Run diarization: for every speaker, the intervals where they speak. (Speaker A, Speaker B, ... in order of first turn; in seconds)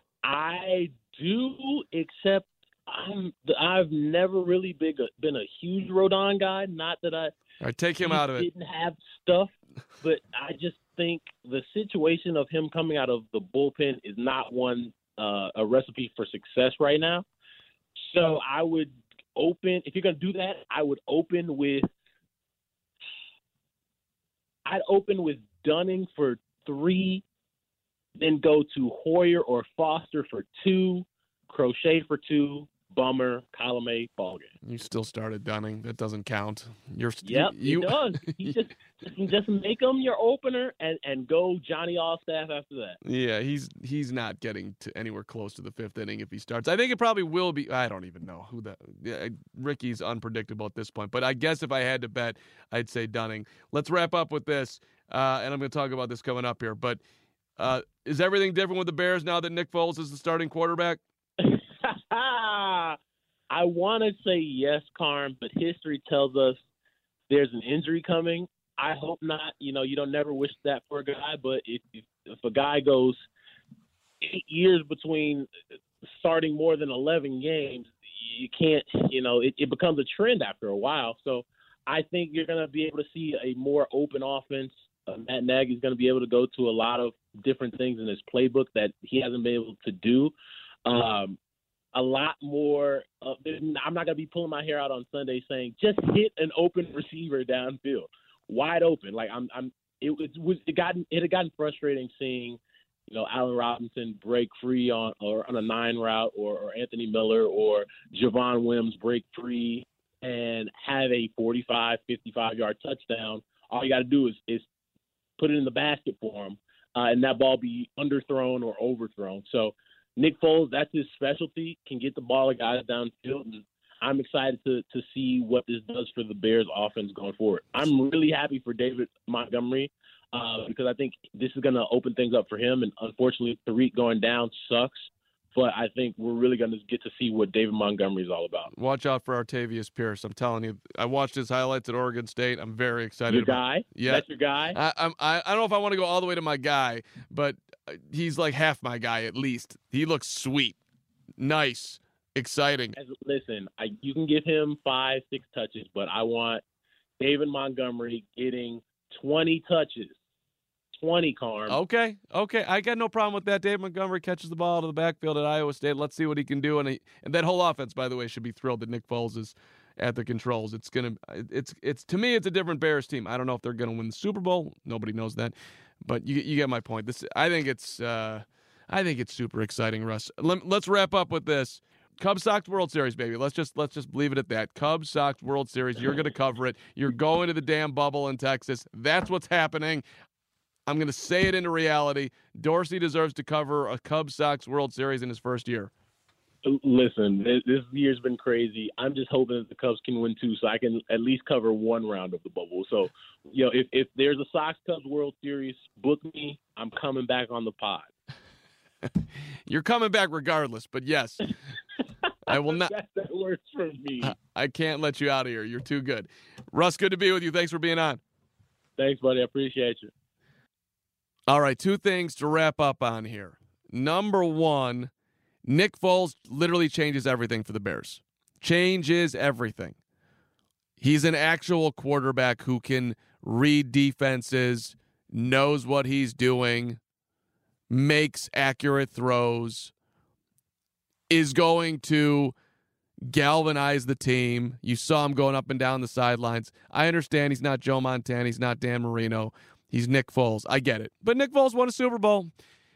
Speaker A: 0.2-7.3, 8.0-17.2, 18.1-21.9, 24.6-27.2, 28.2-34.5, 37.2-43.0, 61.4-63.0, 63.5-66.6, 67.3-73.2, 74.2-75.5, 76.2-90.3, 90.8-91.4, 91.9-114.7, 115.4-138.7, 143.3-144.8, 152.9-156.6, 157.2-160.1, 161.0-161.8, 196.6-208.1, 212.5-214.3, 219.0-220.1
Speaker B: 7.6-8.5, 34.6-38.5, 43.0-57.0, 57.6-61.0, 138.7-150.8, 151.4-152.9, 161.7-190.0, 190.9-195.9, 209.7-211.5, 212.5-212.9, 214.2-218.2, 221.5-225.1, 225.7-229.9, 231.0-237.0, 237.9-239.9, 241.3-242.5, 243.3-252.5